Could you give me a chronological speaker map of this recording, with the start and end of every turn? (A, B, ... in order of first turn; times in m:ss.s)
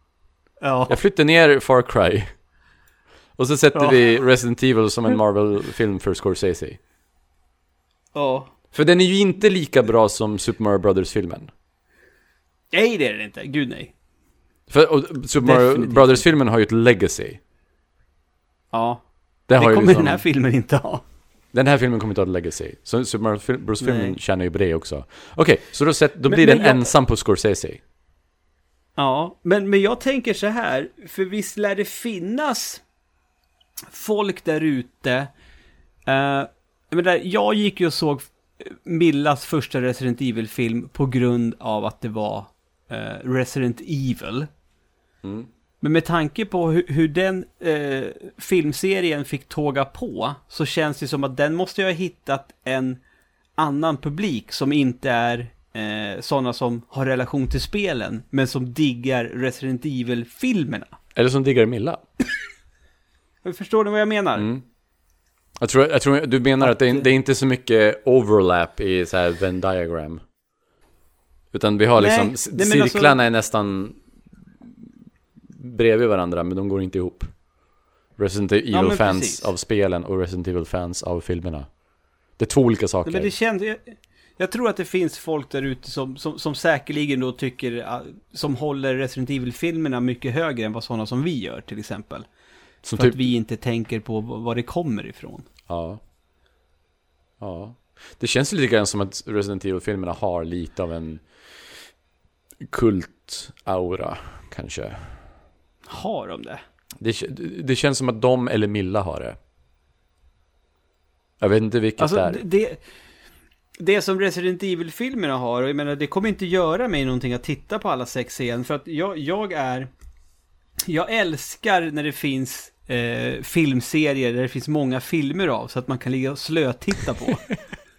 0:00.6-0:01.0 A
0:00.9-0:02.3 B
0:03.4-0:06.8 B
0:03.7-0:04.2 A
0:08.1-0:08.5 A
0:08.7-0:11.5 B
0:12.7-0:13.9 A
0:14.7-0:17.4 B
0:15.4-0:16.2 A
0:18.7-0:21.0 A
0:19.5-0:20.2 B
0:21.5-0:27.8 B
0:23.8-0:24.2 A
0:26.3-0:26.9 A
0:29.0-0:32.8 A
0:33.9-0:35.3 A
0:36.1-0:44.5 A
0:45.2-0:45.5 B
0:45.8-0:53.0 A
0:53.6-1:01.0 A
1:01.1-1:02.0 B
1:03.4-1:04.5 A
1:04.4-1:04.6 B
1:05.6-1:10.2 B
1:06.6-1:07.0 A
1:11.5-1:14.0 B
1:12.0-1:13.2 A
1:15.5-1:17.4 B
1:18.1-1:23.3 B
1:18.7-1:19.5 A
1:23.0-1:32.3 A
1:32.8-1:33.2 B
1:32.8-1:35.4 A
1:35.7-1:36.0 B
1:37.4-1:41.8 B
1:42.6-1:45.3 B
1:45.9-1:46.6 A
1:47.0-1:49.4 B
1:51.4-1:52.4 B
1:52.0-1:52.8 A
1:53.8-1:59.9 A
2:00.8-2:07.6 A